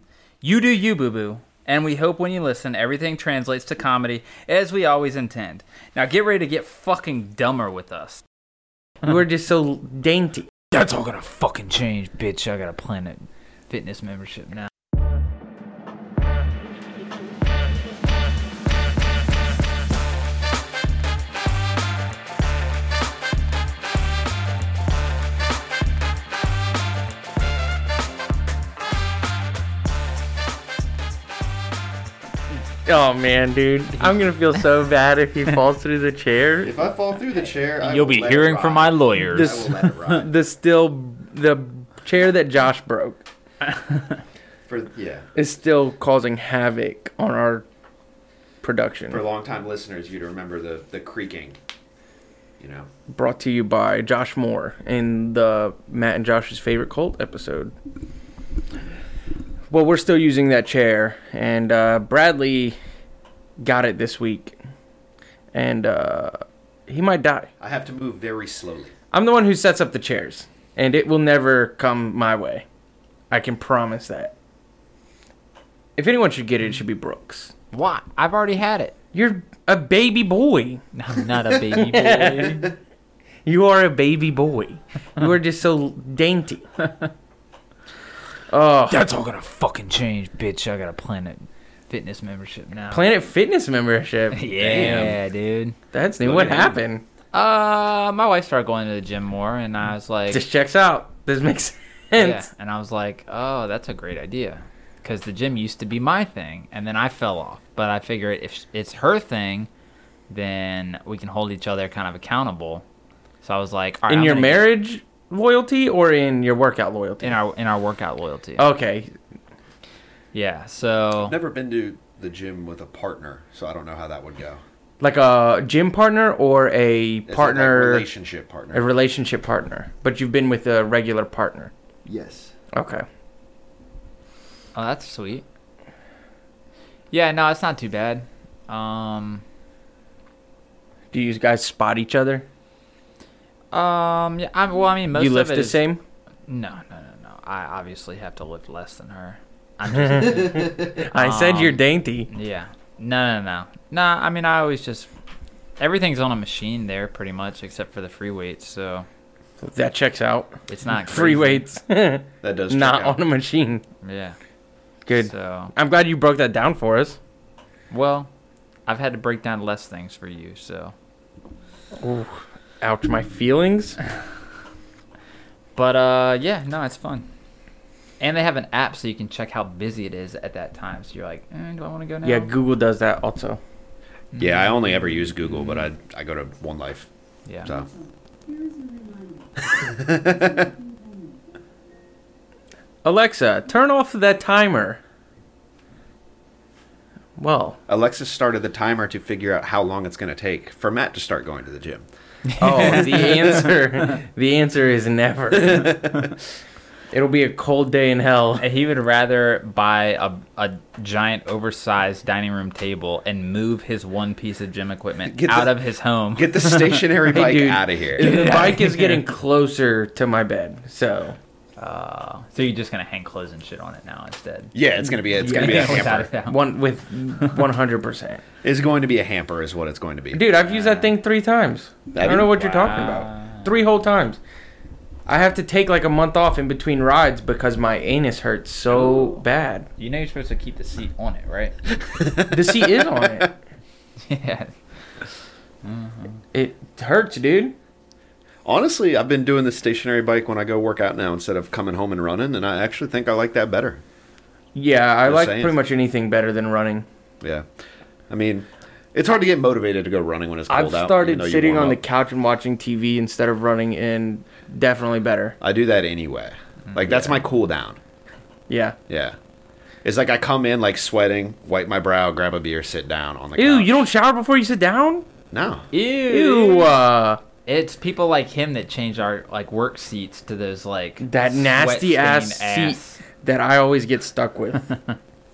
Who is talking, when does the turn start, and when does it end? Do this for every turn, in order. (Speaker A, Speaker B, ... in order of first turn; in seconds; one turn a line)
Speaker A: 0.4-8.2
Speaker B: 9.0-10.5
Speaker A: 10.7-14.7
Speaker B: 32.8-36.7
Speaker C: 36.6-40.3
Speaker A: 37.8-39.9
Speaker B: 40.0-43.2
Speaker A: 43.7-44.1
Speaker C: 44.7-45.2
Speaker B: 45.3-47.6
Speaker B: 48.6-49.2
Speaker C: 49.1-51.5
Speaker C: 52.6-52.9
Speaker B: 53.1-57.7
Speaker B: 59.7-62.8
Speaker B: 63.6-64.6
Speaker B: 65.5-67.5
Speaker C: 67.6-68.9
Speaker B: 69.1-72.6
Speaker B: 73.3-74.3
Speaker B: 76.0-77.5
Speaker A: 77.7-78.9
Speaker B: 79.1-80.8
Speaker A: 80.9-82.7
Speaker B: 81.7-82.7
Speaker B: 83.5-86.6
Speaker B: 88.5-89.0
Speaker A: 88.9-93.0
Speaker B: 92.9-94.4
Speaker A: 94.3-95.8
Speaker C: 94.5-95.2
Speaker B: 95.9-97.0
Speaker C: 96.2-96.8
Speaker A: 97.3-100.4
Speaker B: 100.3-102.5
Speaker A: 102.2-109.7
Speaker A: 110.3-112.8
Speaker A: 113.4-114.7
Speaker B: 114.1-117.4
Speaker A: 117.2-118.7
Speaker B: 118.6-119.1
Speaker A: 120.3-121.3
Speaker C: 121.2-124.6
Speaker B: 125.0-128.1
Speaker C: 127.3-128.9
Speaker B: 128.7-131.7
Speaker C: 132.0-132.5
Speaker B: 132.7-133.1
Speaker A: 134.7-135.4
Speaker A: 137.1-139.4
Speaker B: 141.1-142.4
Speaker A: 143.7-145.8
Speaker B: 145.1-146.0
Speaker A: 146.5-155.1
Speaker B: 149.9-152.3
Speaker A: 155.8-159.1
Speaker B: 159.6-163.8
Speaker A: 160.7-161.6
Speaker C: 162.4-163.2
Speaker A: 164.0-164.3
Speaker B: 165.1-167.2
Speaker A: 165.2-165.7
Speaker A: 167.9-168.3
Speaker A: 168.9-170.9
Speaker B: 172.0-174.0
Speaker A: 175.8-177.3
Speaker A: 178.2-182.5
Speaker B: 182.2-183.6
Speaker A: 184.3-185.9
Speaker C: 184.4-187.1
Speaker A: 187.4-187.7
Speaker C: 189.6-190.7
Speaker B: 193.0-195.0
Speaker B: 197.4-197.8
Speaker C: 197.9-202.0
Speaker A: 202.6-203.0
Speaker B: 202.6-205.9
Speaker C: 202.9-203.7
Speaker C: 205.5-206.3
Speaker B: 207.1-208.6
Speaker A: 208.6-217.1
Speaker C: 215.2-215.7
Speaker C: 216.3-218.3
Speaker B: 217.3-221.4
Speaker A: 218.2-219.1
Speaker A: 221.8-224.7
Speaker C: 224.7-226.3
Speaker A: 225.4-226.6
Speaker B: 225.4-228.4
Speaker C: 228.6-230.5
Speaker B: 230.3-234.4
Speaker A: 230.7-231.2
Speaker C: 232.1-232.9
Speaker A: 232.7-233.7
Speaker B: 235.2-239.9
Speaker A: 238.9-239.4
Speaker A: 240.0-241.8
Speaker C: 242.2-242.9
Speaker B: 242.5-243.6
Speaker A: 244.2-244.7
Speaker A: 245.8-246.4
Speaker B: 246.5-247.7
Speaker C: 248.6-254.0
Speaker B: 254.7-257.0
Speaker C: 255.2-255.8
Speaker C: 257.4-257.7
Speaker C: 258.3-262.0
Speaker B: 260.7-265.5
Speaker C: 265.6-268.0
Speaker A: 266.9-267.3
Speaker B: 268.7-268.9
Speaker C: 269.1-269.4
Speaker C: 270.0-274.0
Speaker B: 273.6-275.2
Speaker C: 275.5-275.9
Speaker A: 275.9-277.0
Speaker B: 276.3-277.4
Speaker A: 277.6-283.2
Speaker B: 281.2-284.8